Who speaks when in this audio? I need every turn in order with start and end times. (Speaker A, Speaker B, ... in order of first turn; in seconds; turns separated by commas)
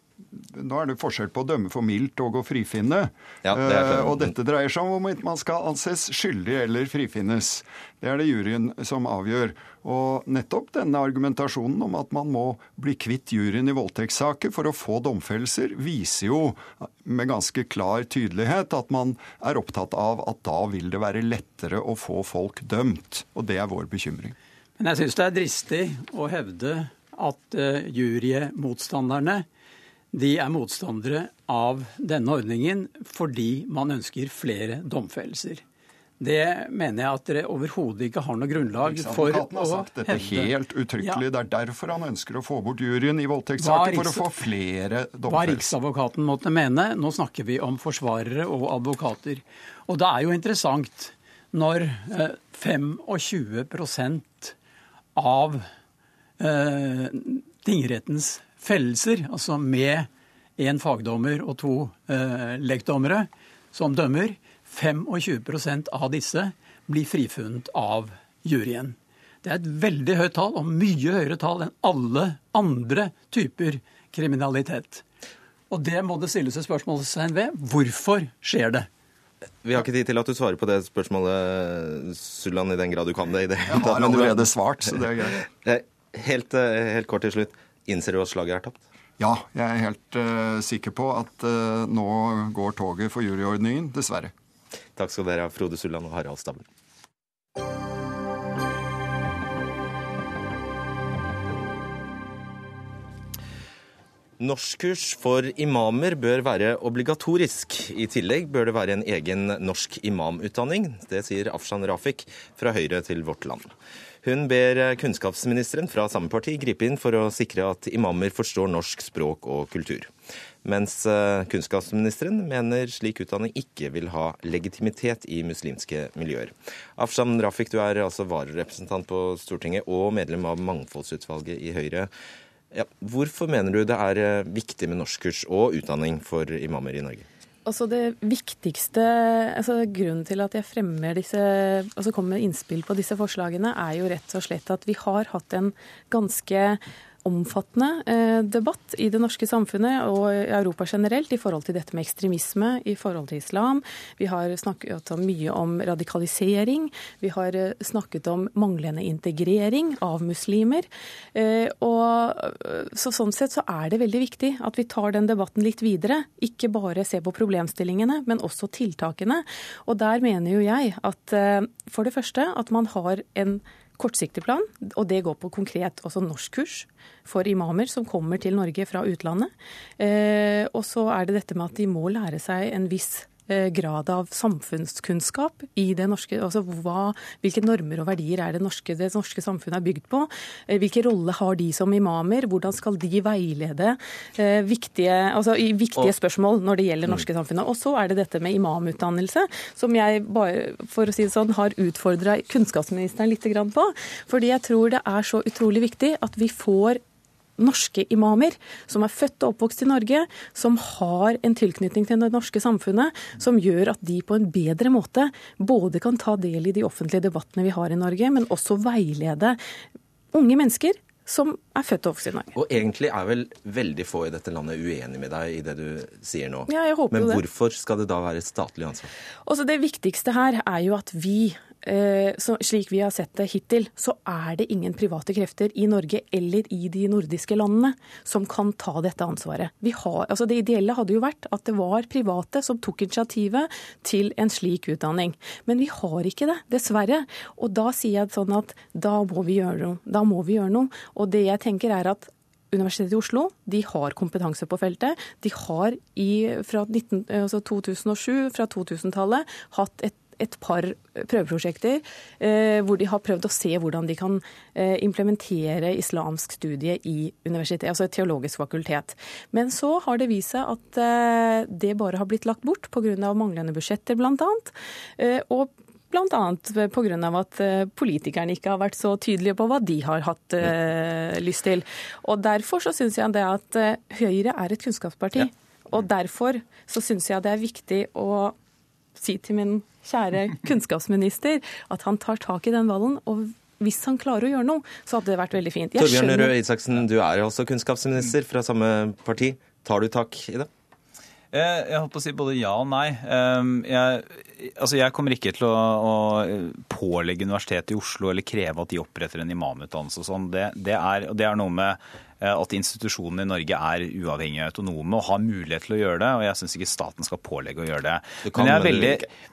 Speaker A: 0.3-24.4, Speaker B: 3.5-4.3, Speaker C: 24.8-29.4, Speaker C: 30.1-35.6, Speaker C: 36.2-41.2, Speaker A: 38.8-45.8, Speaker C: 43.6-44.3, Speaker C: 45.3-54.5, Speaker C: 55.2-55.7, Speaker C: 56.4-75.0, Speaker C: 75.7-78.9, Speaker B: 79.6-84.5, Speaker A: 83.7-85.5, Speaker B: 85.4-88.8, Speaker A: 89.2-94.3, Speaker B: 95.0-96.7, Speaker B: 104.4-113.7, Speaker B: 114.2-120.1, Speaker B: 120.6-132.1, Speaker B: 132.7-137.3, Speaker D: 137.7-207.0, Speaker D: 207.6-219.6, Speaker D: 220.3-222.5, Speaker B: 222.5-229.1, Speaker D: 226.7-227.4, Speaker D: 229.5-288.6, Speaker D: 289.2-296.6, Speaker B: 296.0-300.7, Speaker E: 301.5-319.2, Speaker B: 318.4-319.3